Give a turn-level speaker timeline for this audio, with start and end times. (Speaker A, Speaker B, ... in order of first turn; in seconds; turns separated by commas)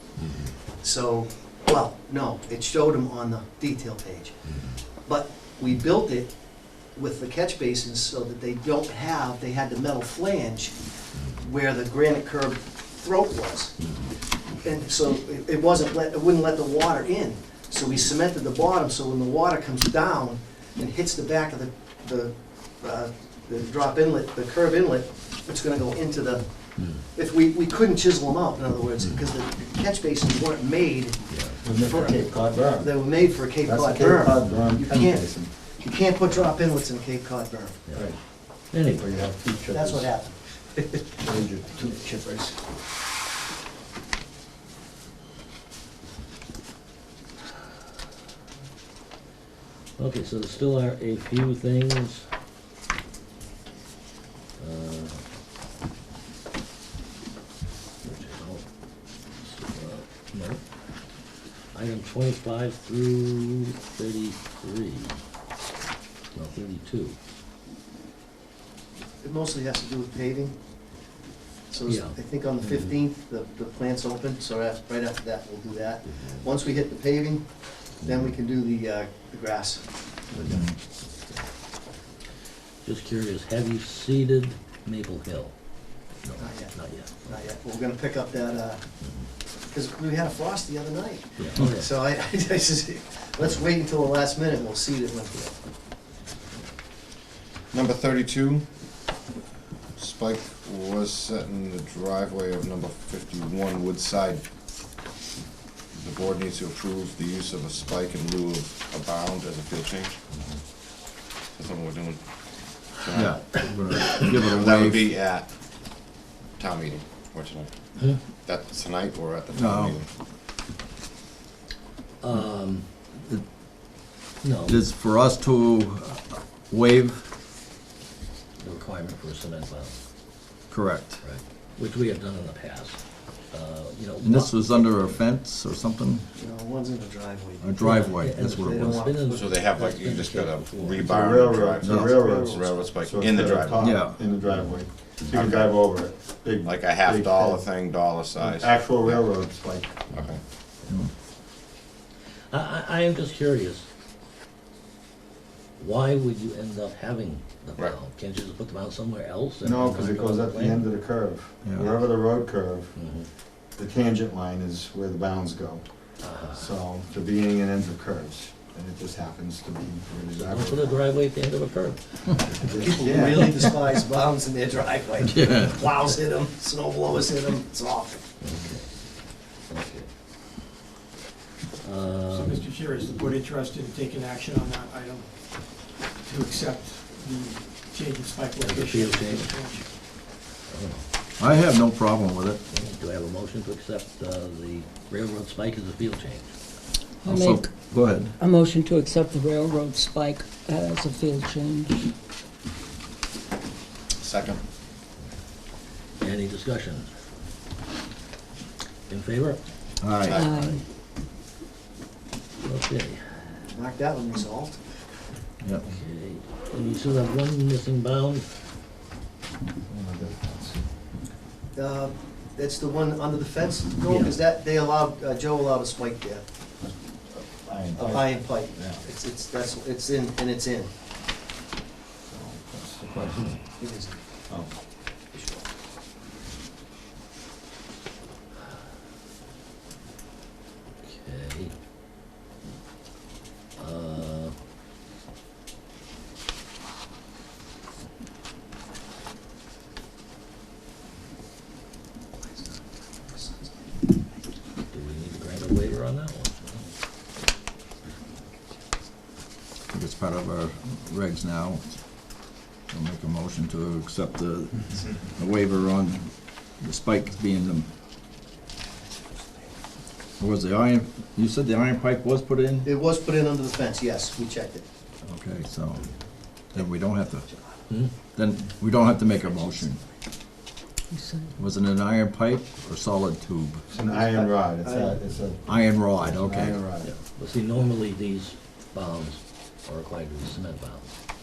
Speaker A: 0.2-0.5, Speaker B: 0.8-4.3, Speaker B: 5.0-6.4, Speaker B: 6.9-10.8, Speaker B: 11.4-13.8, Speaker B: 14.6-37.8, Speaker A: 31.3-32.1, Speaker C: 31.6-35.5, Speaker A: 37.9-39.3, Speaker C: 37.9-38.2, Speaker C: 38.8-40.1, Speaker B: 39.7-41.2, Speaker C: 41.2-42.5, Speaker A: 50.0-52.2, Speaker A: 54.6-55.2, Speaker A: 58.0-58.6, Speaker A: 59.4-60.6, Speaker A: 61.7-65.2, Speaker A: 66.3-67.2, Speaker B: 69.2-70.5, Speaker B: 71.7-79.9, Speaker A: 71.8-72.9, Speaker A: 76.0-76.5, Speaker A: 80.3-80.7, Speaker D: 80.5-80.8, Speaker A: 82.8-85.5, Speaker A: 86.2-87.3, Speaker B: 86.4-88.8, Speaker B: 89.7-95.5, Speaker A: 91.4-91.9, Speaker E: 97.7-98.7, Speaker E: 100.0-104.4, Speaker E: 105.9-110.2, Speaker A: 110.3-110.6, Speaker E: 111.5-115.9, Speaker D: 113.1-115.1, Speaker E: 116.5-120.0, Speaker D: 119.5-120.0, Speaker A: 122.2-122.9, Speaker A: 124.4-124.8, Speaker D: 124.7-127.3, Speaker A: 128.6-129.9, Speaker D: 130.7-131.2, Speaker A: 131.2-133.0, Speaker A: 133.5-134.9, Speaker D: 134.2-136.2, Speaker B: 136.3-139.5, Speaker D: 137.6-139.2, Speaker A: 137.8-141.5, Speaker E: 139.2-143.9, Speaker C: 141.0-147.7, Speaker D: 141.8-142.1, Speaker B: 141.8-142.9, Speaker D: 143.8-144.2, Speaker A: 144.5-144.7, Speaker E: 145.3-145.8, Speaker E: 146.6-149.3, Speaker C: 148.4-150.0, Speaker E: 150.1-150.4, Speaker A: 152.5-153.8, Speaker A: 155.8-160.9, Speaker C: 159.6-162.9, Speaker D: 161.7-161.9, Speaker A: 163.0-163.3, Speaker C: 163.8-165.8, Speaker A: 166.2-166.7, Speaker C: 166.4-171.0, Speaker A: 170.3-173.7, Speaker C: 172.6-173.6, Speaker B: 172.8-178.2, Speaker A: 175.4-175.8, Speaker A: 178.4-178.9, Speaker A: 179.7-180.1, Speaker A: 181.8-182.7, Speaker F: 182.3-189.9, Speaker A: 188.6-189.8, Speaker A: 190.7-191.0, Speaker D: 191.4-192.6, Speaker A: 192.7-196.5, Speaker G: 197.2-197.7, Speaker D: 197.3-198.3, Speaker G: 198.4-202.1, Speaker E: 204.2-204.6, Speaker A: 206.2-207.1, Speaker A: 209.1-209.6, Speaker D: 210.0-210.4, Speaker E: 210.3-210.8, Speaker G: 210.4-210.8, Speaker A: 212.6-213.5, Speaker B: 213.7-214.8, Speaker D: 215.6-215.9, Speaker A: 215.8-218.4, Speaker C: 219.9-220.8, Speaker B: 221.7-226.4, Speaker A: 224.1-224.3, Speaker C: 226.8-229.0, Speaker B: 227.9-230.9, Speaker C: 232.3-233.8, Speaker B: 233.8-234.2, Speaker B: 235.3-235.6, Speaker A: 241.0-241.7, Speaker A: 243.8-244.5, Speaker A: 254.9-256.8, Speaker D: 259.9-262.0, Speaker D: 262.9-267.9, Speaker D: 270.4-272.9, Speaker B: 272.8-274.8, Speaker D: 275.2-276.1, Speaker D: 276.7-277.4, Speaker A: 277.9-278.1, Speaker D: 278.1-280.0, Speaker G: 281.1-281.5, Speaker D: 281.6-283.8, Speaker C: 283.9-287.1, Speaker B: 284.1-285.2, Speaker D: 285.6-286.8, Speaker A: 287.0-291.1